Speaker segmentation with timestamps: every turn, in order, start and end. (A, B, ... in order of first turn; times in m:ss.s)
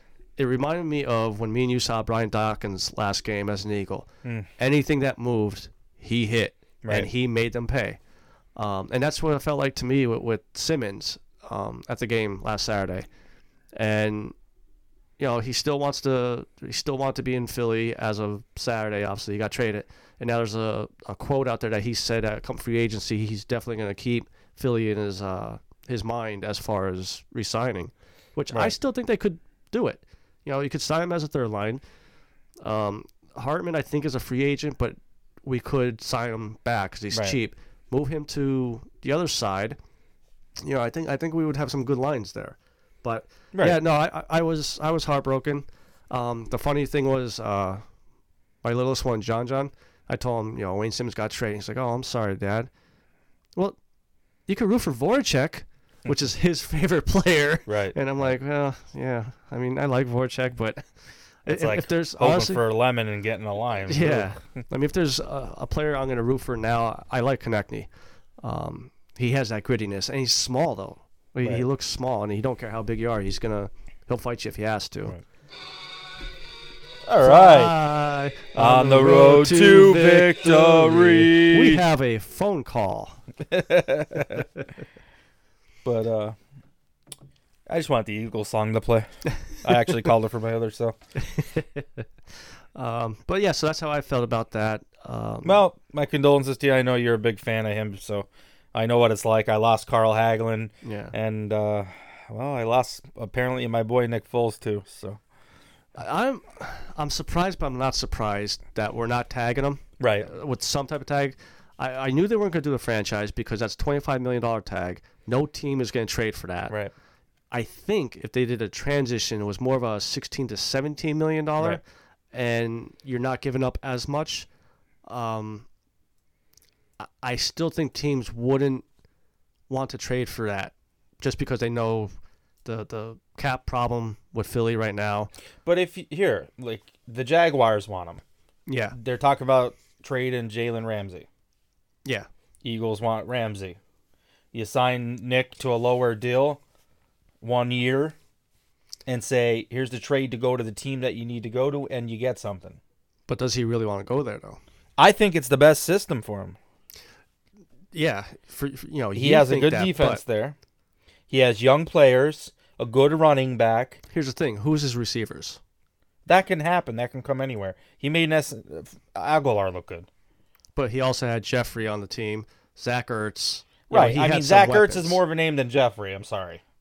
0:00.4-0:08.0 A
0:08.6-0:13.1 A
0:13.8-0:14.4 A
0:15.2-0:31.8 A
0:32.6-0:39.8 A
0:37.1-0:37.4 B
0:40.6-0:47.8 A
0:43.5-0:43.8 B
0:48.6-0:52.7 A
0:54.5-1:00.8 A
0:57.7-0:58.0 B
1:01.4-1:02.7 A
1:01.5-1:04.3 B
1:03.9-1:07.9 A
1:08.4-1:15.2 A
1:17.1-1:17.8 B
1:17.2-1:23.2 A
1:18.5-1:21.8 B
1:23.5-1:24.4 B
1:25.8-1:26.4 B
1:27.7-1:31.0 B
1:31.2-1:32.0 A
1:32.8-1:35.6 A
1:35.4-1:45.2 B
1:40.8-1:41.1 A
1:46.0-1:56.8 A
1:50.0-1:50.3 B
1:57.5-2:01.8 A
2:02.3-2:04.5 A
2:05.1-2:05.6 A
2:07.0-2:08.8 A
2:09.7-2:12.1 A
2:12.6-2:15.3 A
2:15.6-2:18.2 B
2:18.7-2:19.0 A
2:18.9-2:21.3 B
2:22.6-2:23.8 B
2:24.5-2:26.6 B
2:27.4-2:28.2 B
2:29.1-2:32.8 B
2:33.3-2:34.6 A
2:35.0-2:36.6 B
2:37.9-2:40.2 A
2:39.2-2:40.6 B
2:41.3-2:44.0 B
2:44.1-2:45.6 A
2:46.3-2:50.1 B
2:50.8-2:55.2 A
2:53.9-2:56.6 B